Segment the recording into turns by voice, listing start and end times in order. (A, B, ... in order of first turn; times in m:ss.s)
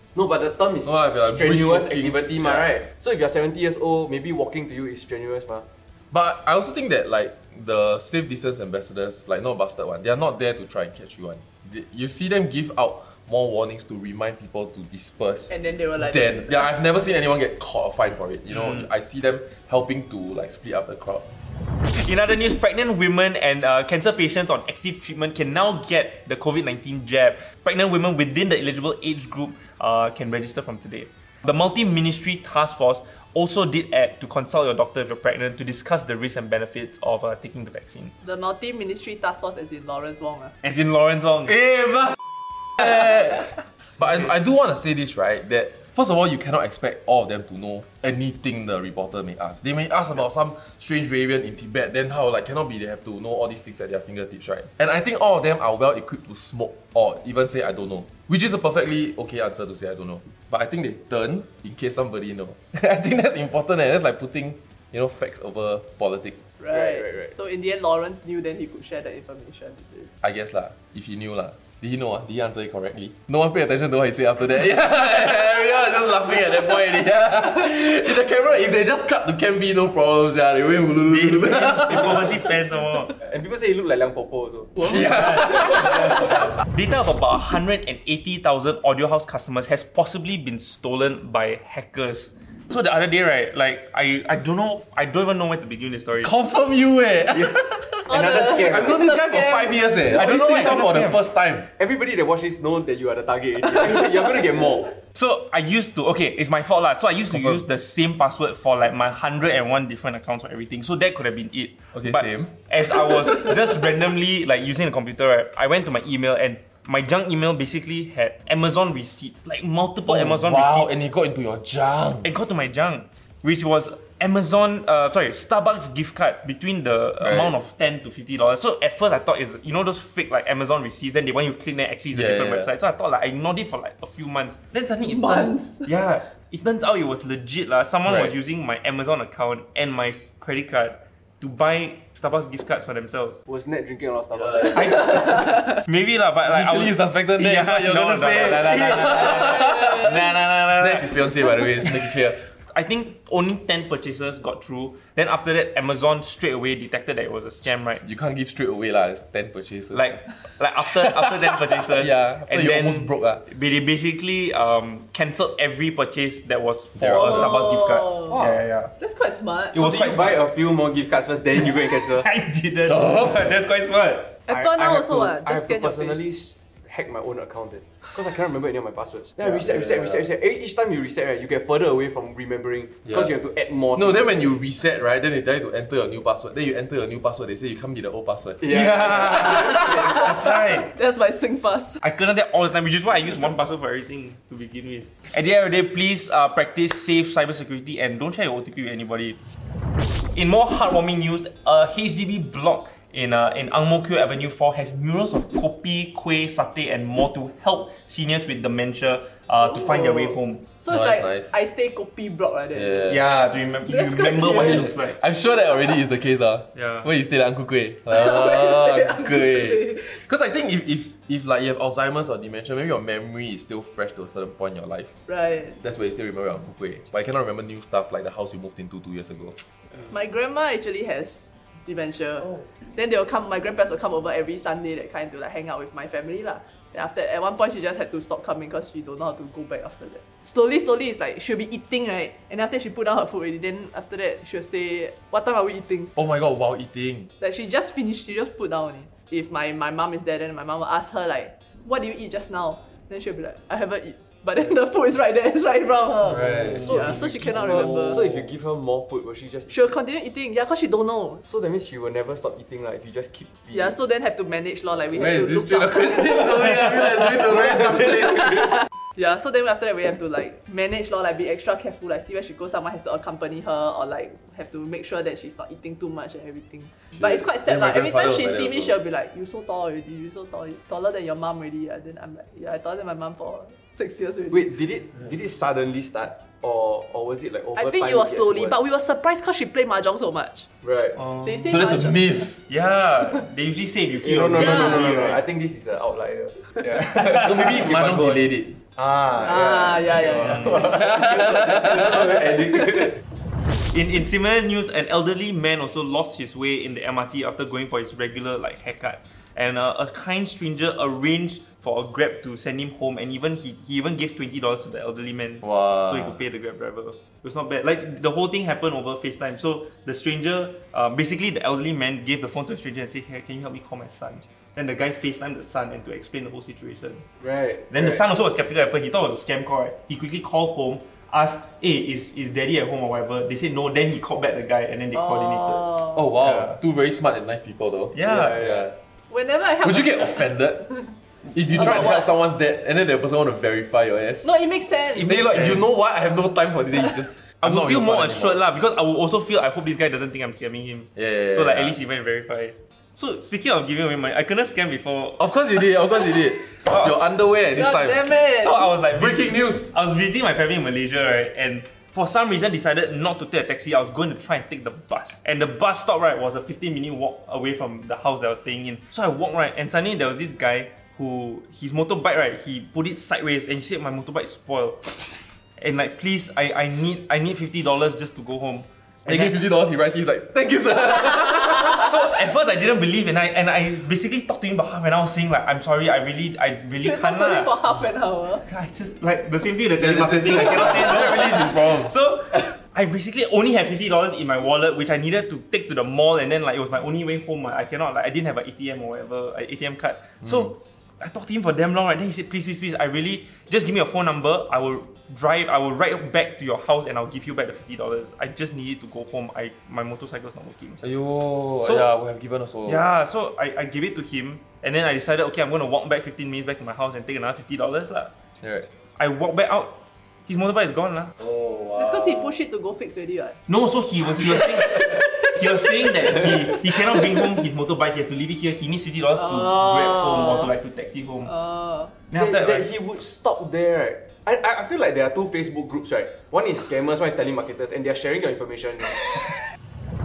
0:00.1-0:05.6 A
0:00.8-0:02.7 B
0:06.1-0:21.2 B
0:15.5-0:16.8 C
0:21.9-0:38.1 D
0:38.2-0:40.5 C
0:40.6-0:41.6 D
0:41.5-0:42.2 B
0:42.8-1:06.4 B
1:06.6-1:10.1 C
1:06.7-1:07.3 A
1:10.2-1:22.3 B
1:21.0-1:23.1 D
1:23.2-1:25.9 A
1:24.8-1:26.1 B
1:25.1-1:36.3 D
1:36.2-1:41.7 B
1:38.1-1:39.0 A
1:38.1-1:39.8 C
1:40.1-1:41.2 D
1:41.8-1:44.9 A
1:45.1-2:00.9 D
1:47.3-1:47.6 B
1:51.9-1:52.5 B
2:00.1-2:02.3 B
2:02.2-2:23.4 D
2:07.2-2:07.5 B
2:12.1-2:12.7 B
2:15.0-2:15.9 C
2:18.0-2:18.3 B
2:23.5-2:25.0 A
2:24.3-2:38.0 D
2:26.4-2:30.2 B
2:30.8-2:32.4 B
2:38.0-2:40.2 B
2:39.9-2:48.9 D
2:41.0-2:43.4 B
2:47.0-2:47.6 B
2:47.2-2:48.3 C
2:48.3-2:48.6 A
2:49.0-2:49.8 C
2:49.7-2:52.3 A
2:49.7-2:50.4 D
2:51.7-2:54.4 D
2:52.9-2:53.3 B
2:54.5-2:56.3 C
2:54.5-3:04.3 A
2:59.4-3:00.2 B
3:03.9-3:08.7 B
3:08.6-3:10.2 A
3:08.7-3:10.9 D
3:09.4-3:12.0 C
3:12.0-3:19.4 D
3:20.3-3:30.6 D
3:29.6-3:33.1 C
3:30.9-3:31.5 B
3:32.7-3:33.2 B
3:33.1-3:35.2 D
3:33.9-3:34.8 C
3:34.5-3:45.1 B
3:36.7-3:37.1 D
3:38.1-3:40.2 C
3:45.3-3:45.8 C
3:45.8-3:49.6 B
3:50.1-4:06.1 C
4:06.2-4:07.3 B
4:07.4-4:18.2 C
4:16.2-4:18.5 B
4:16.7-4:19.8 A
4:19.7-4:21.4 C
4:21.4-4:23.9 A
4:23.7-4:26.5 C
4:25.1-4:28.8 B
4:29.2-4:44.7 C
4:37.2-4:39.0 B
4:44.5-4:48.8 A
4:47.8-4:50.7 C
4:50.8-4:51.2 A
4:51.1-4:51.7 D
4:51.4-4:52.2 C
4:51.7-4:52.6 B
4:52.7-4:55.4 D
4:54.2-5:03.2 A
4:54.6-4:55.1 C
4:57.1-4:57.4 D
4:57.4-4:58.8 B
4:59.4-5:01.0 C
5:00.8-5:02.3 B
5:03.7-5:27.2 D
5:15.6-5:16.4 B
5:27.4-5:28.2 A
5:27.9-5:36.8 D
5:35.5-5:35.9 C
5:36.1-5:39.0 B
5:38.1-5:38.6 D
5:38.2-5:38.8 A
5:39.3-5:40.9 C
5:39.8-5:40.9 B
5:41.4-5:44.5 B
5:41.7-5:42.2 C
5:44.4-5:45.6 C
5:45.1-5:48.6 B
5:45.2-5:45.8 D
5:47.6-5:55.4 D
5:51.2-5:52.0 B
5:55.4-5:58.2 B
5:56.8-5:57.3 D
5:57.8-5:58.9 C
5:58.6-6:19.6 D
5:59.1-5:59.9 B
6:19.2-6:22.1 B
6:21.9-6:27.7 D
6:27.0-6:28.6 C
6:28.6-6:51.0 D
6:30.0-6:32.1 B
6:51.0-6:53.0 B
6:51.8-6:52.1 D
6:52.8-6:58.3 D
6:58.6-6:58.9 B
6:59.2-7:01.3 D
7:01.4-7:02.6 B
7:02.0-7:03.6 C
7:03.7-7:11.5 D
7:11.4-7:12.1 C
7:12.3-7:12.8 D
7:12.3-7:19.3 A